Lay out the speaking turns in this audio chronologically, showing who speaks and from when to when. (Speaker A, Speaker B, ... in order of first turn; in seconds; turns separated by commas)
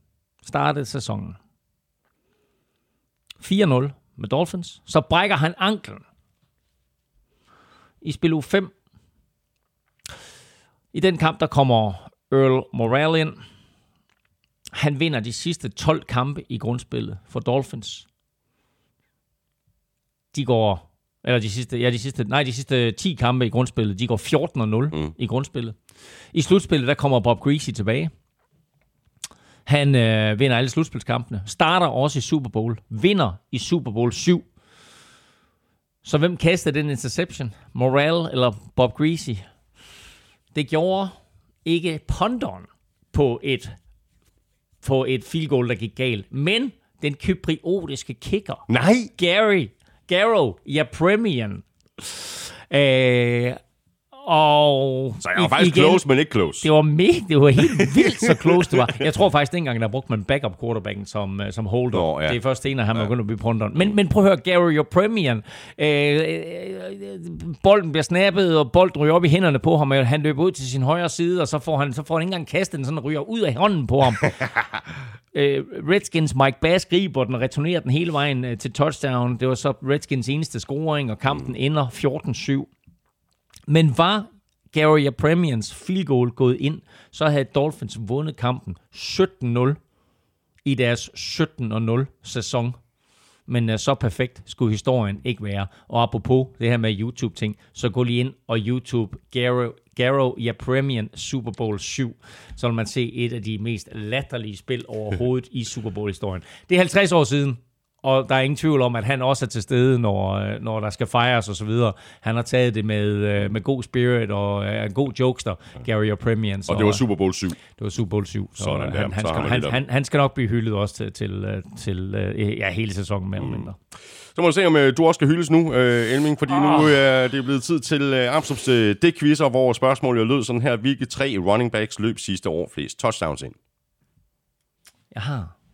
Speaker A: 0.4-1.4, Speaker A: 3.4-6.0, Speaker A: 8.0-8.7, Speaker A: 10.9-13.4, Speaker A: 14.8-18.1, Speaker A: 20.3-25.8, Speaker A: 26.3-28.1, Speaker A: 29.7-34.5, Speaker A: 36.0-39.5, Speaker A: 40.5-43.8, Speaker A: 44.8-53.6, Speaker B: 48.7-49.1, Speaker A: 54.1-56.0, Speaker B: 55.2-56.7, Speaker A: 56.6-74.4, Speaker B: 57.6-59.1, Speaker B: 61.9-62.4, Speaker A: 75.3-82.7, Speaker A: 83.7-89.8, Speaker A: 90.7-92.8, Speaker A: 93.5-117.0, Speaker B: 116.7-117.6, Speaker A: 117.7-123.8, Speaker B: 118.6-119.8, Speaker B: 123.4-123.7, Speaker B: 124.3-133.6, Speaker A: 126.5-127.0, Speaker A: 135.1-135.5